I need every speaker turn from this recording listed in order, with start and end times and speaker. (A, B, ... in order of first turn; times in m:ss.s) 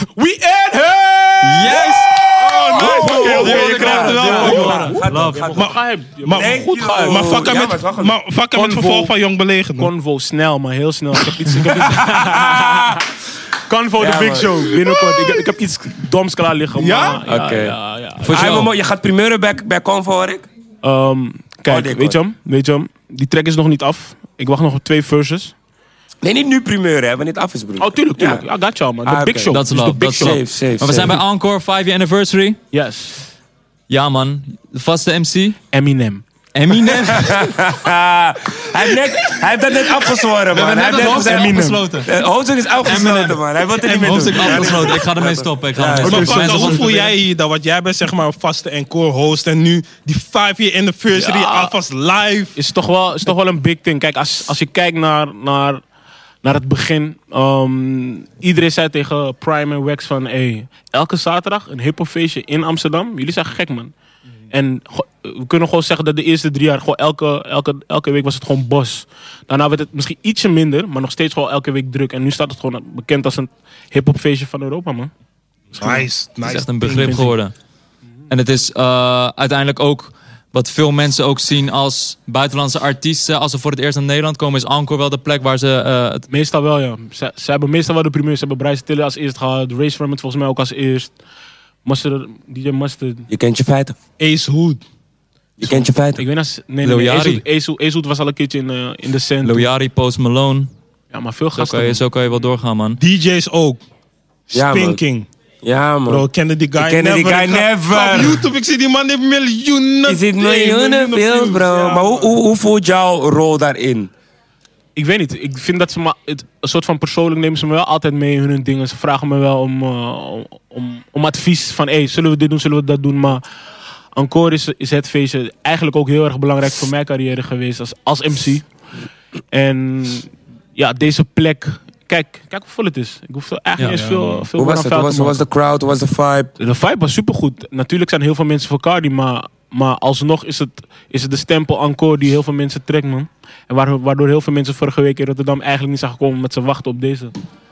0:00.2-0:04.9 A
0:01.4-0:05.6 B
0:02.5-0:05.7 C
0:02.7-0:07.3 D
0:05.6-0:09.9 A
0:06.3-0:08.2 C
0:08.5-0:09.1 D
0:09.7-0:13.0 D
0:11.8-0:13.0 C
0:13.7-0:18.7 D
0:14.0-0:14.5 C
0:14.7-0:15.4 A
0:16.8-0:17.2 A
0:17.3-0:20.5 C
0:18.3-0:18.6 B
0:20.8-0:25.5 D
0:21.7-0:22.2 C
0:26.2-0:28.4 C
0:27.8-0:30.4 D
0:29.0-0:29.6 C
0:29.5-0:32.6 B
0:30.1-0:31.2 C
0:32.7-0:33.2 D
0:33.9-0:35.6 B
0:35.7-0:36.2 D
0:36.5-0:37.6 B
0:36.9-0:46.6 C
0:40.5-0:42.1 B
0:40.8-0:41.5 A
0:40.8-0:41.9 D
0:42.8-0:43.4 B
0:43.8-0:45.0 A
0:44.0-0:47.1 B
0:46.0-0:52.6 A
0:46.2-0:47.1 D
0:51.2-0:51.5 D
0:52.6-0:55.8 D
0:56.4-1:03.9 D
1:04.5-1:15.1 D
1:15.8-1:17.2 A
1:15.8-1:17.5 B
1:17.0-1:17.3 D
1:18.3-1:26.2 B
1:26.3-1:31.2 D
1:31.8-1:33.3 D
1:33.3-1:34.0 C
1:34.2-1:34.8 A
1:35.6-1:36.2 C
1:35.6-1:39.7 D
1:36.8-1:37.4 B
1:39.4-1:40.7 B
1:41.1-1:42.1 D
1:41.6-1:43.0 B
1:43.0-1:43.8 A
1:44.5-1:45.3 A
1:44.5-1:45.0 C
1:45.6-1:46.2 C
1:46.1-1:52.3 A
1:46.8-1:48.4 C
1:50.0-1:54.1 C
1:55.0-2:03.4 D
2:04.1-2:08.7 D
2:09.5-2:15.4 D
2:13.9-2:14.4 A
2:14.6-2:16.5 C
2:16.6-2:27.3 D